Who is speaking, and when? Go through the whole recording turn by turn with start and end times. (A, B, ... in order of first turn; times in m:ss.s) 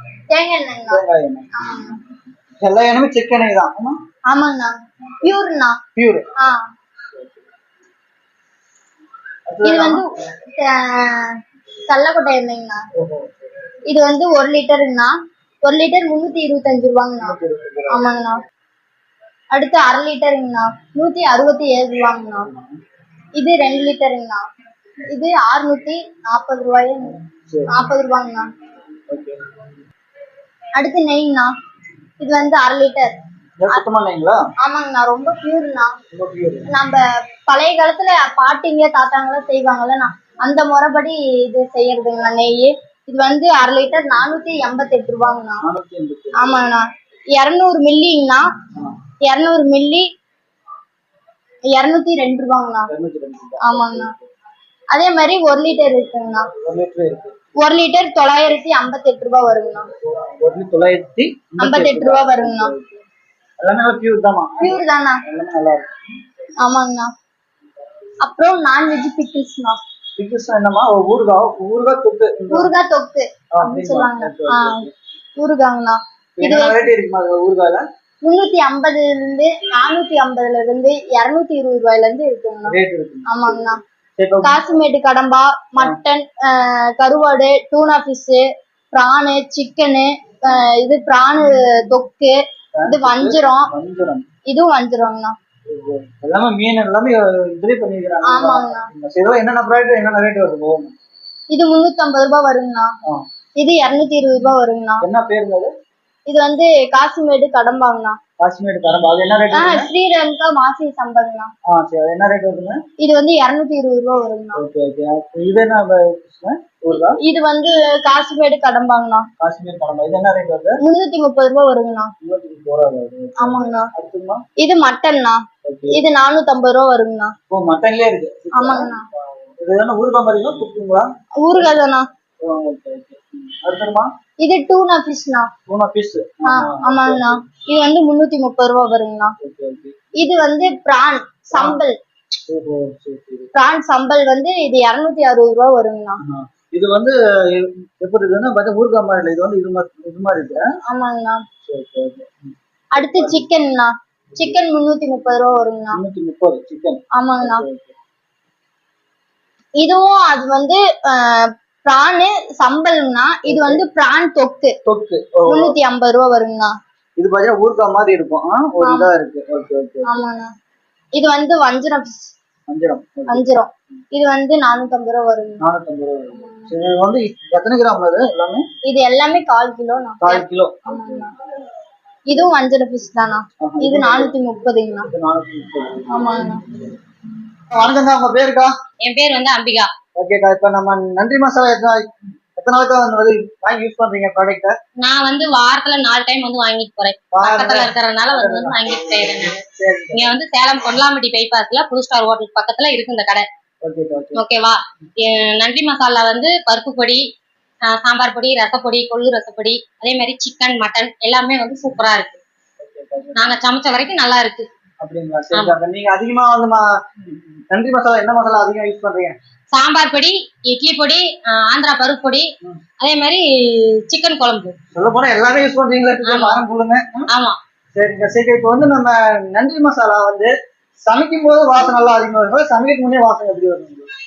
0:00.3-0:01.0 A
0:00.9-0:01.5 B
0:01.5-0:02.0 A
0:02.6-0:04.0 B
0:04.3-0:05.8 A
0:06.0-0:06.3 B
0:09.5-0:10.0 B
0:09.6-0:11.4 A
0:11.9-0:12.8 A
0:13.0-0:13.5 B
0:13.9-0:15.1 A
0:15.6-0:17.4 A
0:17.2-0:18.2 B
0:17.9-0:18.4 A
0:19.5-0:22.5 A
0:23.4-0:24.4 A
0:25.1-0:28.4 A
0:27.4-0:27.7 B
0:29.1-0:29.4 B
0:30.7-0:31.5 A
0:32.2-0:33.1 A
0:33.6-0:34.4 B
0:34.6-0:35.9 A
0:36.1-0:36.7 B
0:36.7-0:45.6 A
0:45.6-0:46.6 B
0:46.4-0:48.4 A
0:49.2-0:50.1 A
0:51.7-0:52.9 A
0:52.9-0:54.3 B
0:53.6-0:54.1 A
0:54.9-0:56.5 A
0:56.6-0:57.3 B
0:57.6-0:59.9 A
1:00.1-1:03.0 B
1:01.6-1:02.7 A
1:03.6-1:05.9 B
1:04.6-1:05.2 A
1:06.6-1:07.1 A
1:08.2-1:09.8 A
1:10.2-1:12.7 B
1:12.5-1:14.8 A
1:13.5-1:14.9 B
1:15.4-1:16.8 A
1:16.4-1:17.8 B
1:18.2-1:22.7 A
1:22.7-1:23.6 B
1:23.3-1:23.8 A
1:24.2-1:24.6 B
1:24.4-1:32.3 A
1:32.7-1:34.2 B
1:32.8-1:33.7 A
1:34.5-1:35.3 A
1:35.7-1:40.9 B
1:38.2-1:38.9 A
1:41.5-1:42.9 A
1:43.6-1:45.0 A
1:45.0-1:45.7 B
1:46.3-1:48.2 A
1:48.4-1:49.9 B
1:49.5-1:51.5 A
1:51.7-1:52.8 B
1:53.0-1:54.6 A
1:54.6-1:57.2 B
1:57.2-1:59.2 A
1:59.4-2:00.8 B
2:00.8-2:02.1 A
2:02.2-2:04.4 B
2:03.4-2:03.9 A
2:04.6-2:07.3 A
2:05.6-2:06.0 B
2:07.5-2:11.1 B
2:08.5-2:09.0 A
2:11.4-2:12.0 A
2:12.4-2:14.1 B
2:14.4-2:15.5 A
2:15.7-2:17.4 B
2:16.4-2:19.3 A
2:19.4-2:19.9 B
2:20.2-2:22.0 A
2:21.5-2:21.8 B
2:22.5-2:23.5 B
2:23.5-2:26.2 A
2:26.2-2:30.6 B
2:30.9-2:31.4 A
2:31.7-2:33.4 B
2:32.9-2:36.0 A
2:35.9-2:37.9 B
2:37.1-2:37.6 A
2:39.8-2:44.7 A
2:43.4-2:43.8 B
2:44.8-2:45.8 B
2:45.5-2:46.7 A
2:47.2-2:50.1 B
2:48.8-2:49.1 A
2:50.0-2:50.5 A
2:51.1-2:52.3 A
2:52.7-2:53.5 B
2:53.3-2:55.6 A
2:55.6-2:58.6 B
2:56.4-2:56.7 A
2:58.8-3:01.3 A
3:00.2-3:01.0 B
3:02.3-3:05.1 A
3:03.6-3:04.4 B
3:05.0-3:06.2 B
3:06.1-3:06.6 A
3:07.7-3:08.7 B
3:09.0-3:09.9 C
3:10.1-3:14.7 B
3:15.0-3:19.6 C
3:17.3-3:20.4 B
3:20.1-3:23.4 C
3:23.8-3:24.4 B
3:24.3-3:27.2 C
3:27.9-3:32.4 C
3:32.8-3:33.6 B
3:33.4-3:34.7 C
3:35.0-3:39.3 B
3:39.7-3:42.4 C
3:43.0-3:44.7 C
3:44.9-3:47.3 B
3:46.2-3:46.6 C
3:47.3-3:47.6 C
3:47.9-3:54.1 B